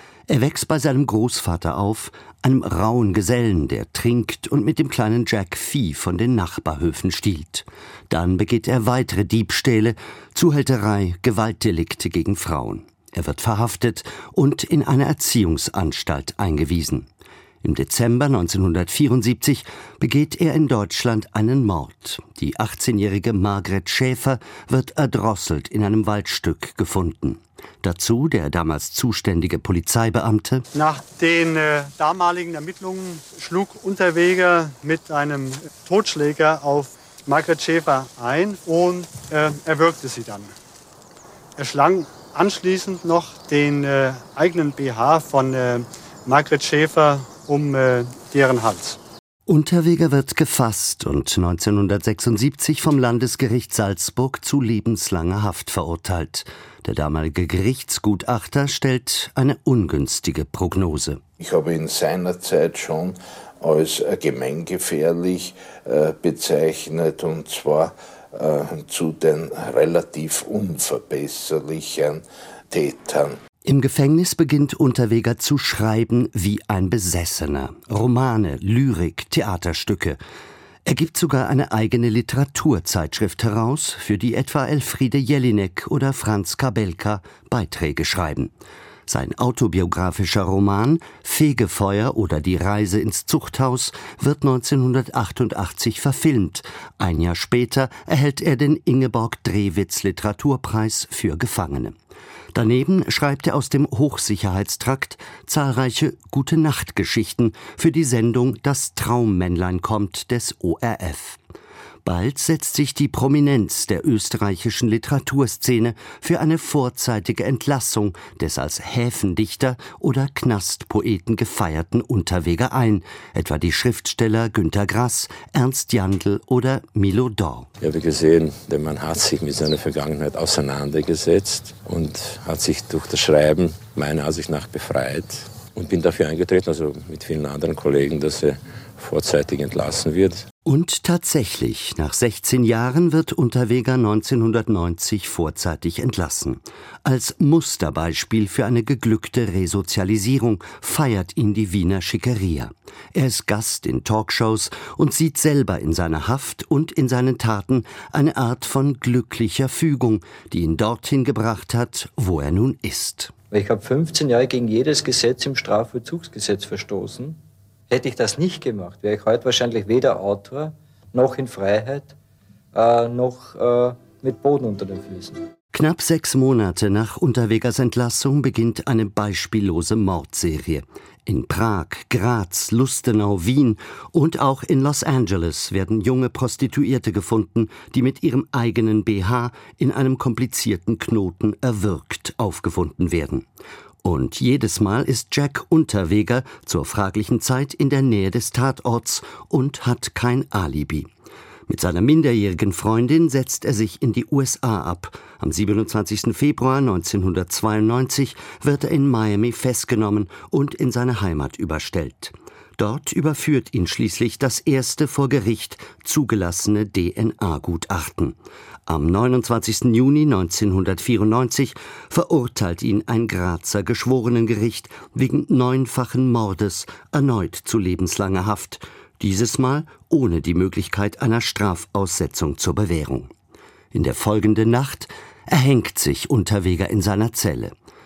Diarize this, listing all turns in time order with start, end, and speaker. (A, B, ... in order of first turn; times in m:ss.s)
0:00.3-0:17.1 A
0:17.6-0:30.6 A
0:30.7-0:40.5 B
0:41.6-0:49.0 B
0:49.4-1:01.2 A
1:01.4-1:13.4 C
1:13.6-1:20.2 A
1:20.8-1:28.5 A
1:29.1-1:41.9 A
1:42.5-1:51.4 A
1:52.0-2:07.7 A
2:07.8-2:20.4 D
2:20.6-2:43.3 A
2:43.5-2:52.1 E
2:52.7-2:55.5 E
2:55.7-3:13.4 A
3:14.0-3:21.1 A
3:21.7-3:38.4 A
3:38.9-3:53.3 A
3:53.9-3:57.7 A